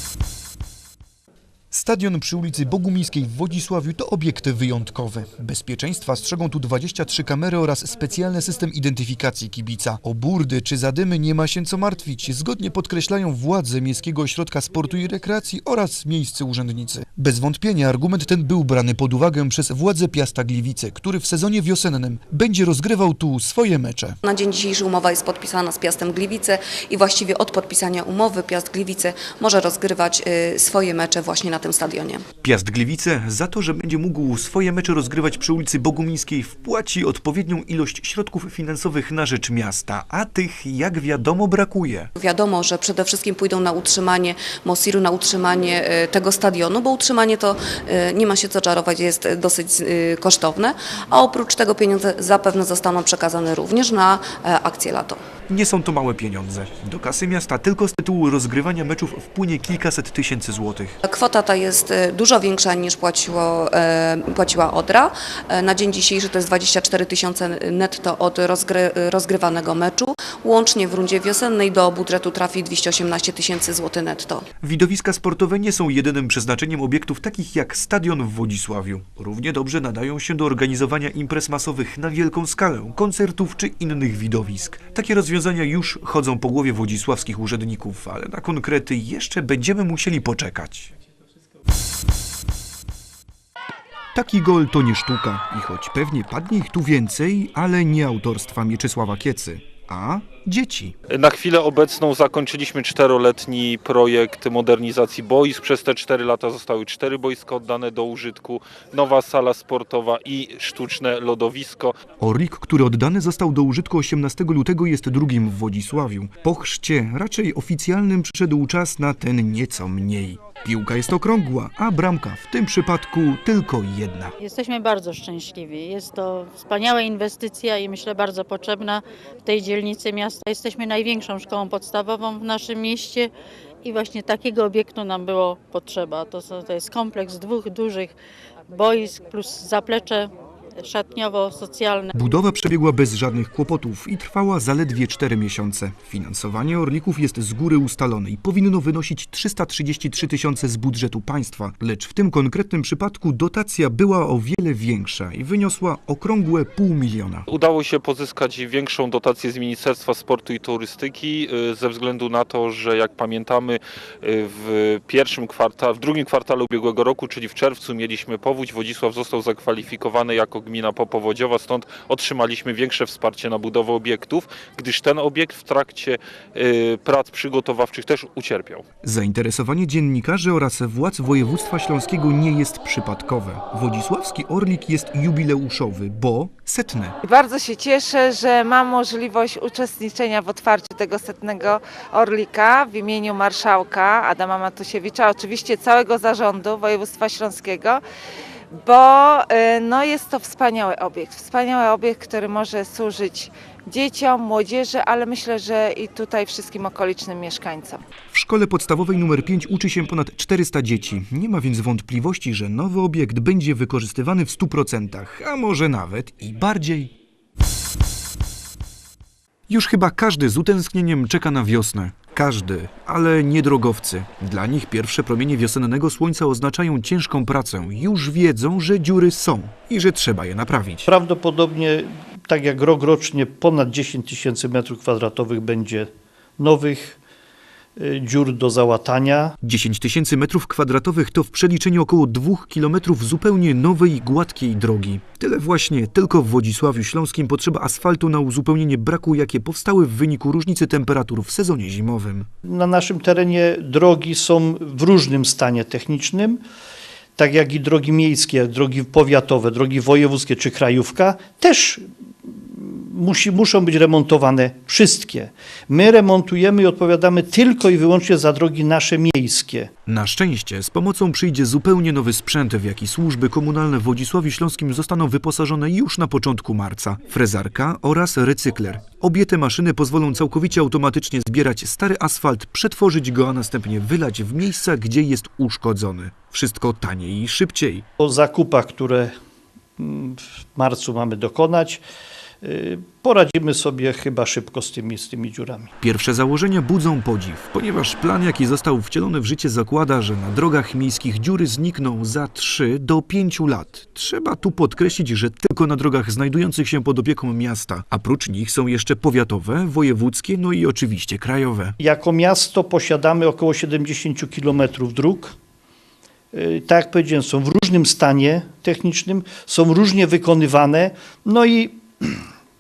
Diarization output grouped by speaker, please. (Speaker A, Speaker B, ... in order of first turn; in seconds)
Speaker A: 1.7-24.2, 32.4-42.1, 55.5-61.0, 74.6-90.9, 94.2-100.9, 112.2-124.3, 142.1-157.5, 179.0-187.2, 208.3-217.1, 219.7-231.1, 239.6-252.5, 270.1-288.1, 296.0-312.0
Speaker B: 24.2-32.2, 42.1-55.2, 61.0-74.4
Speaker C: 101.1-111.9, 157.5-178.8
Speaker D: 124.4-133.3, 133.8-138.1, 138.8-140.3, 140.8-142.1
Speaker E: 187.3-198.0, 198.8-208.0
Speaker F: 231.1-237.2, 238.0-239.5, 252.6-256.6, 257.4-269.9, 288.2-289.3, 290.0-292.0, 292.6-295.9, 312.0-315.5, 316.5-322.4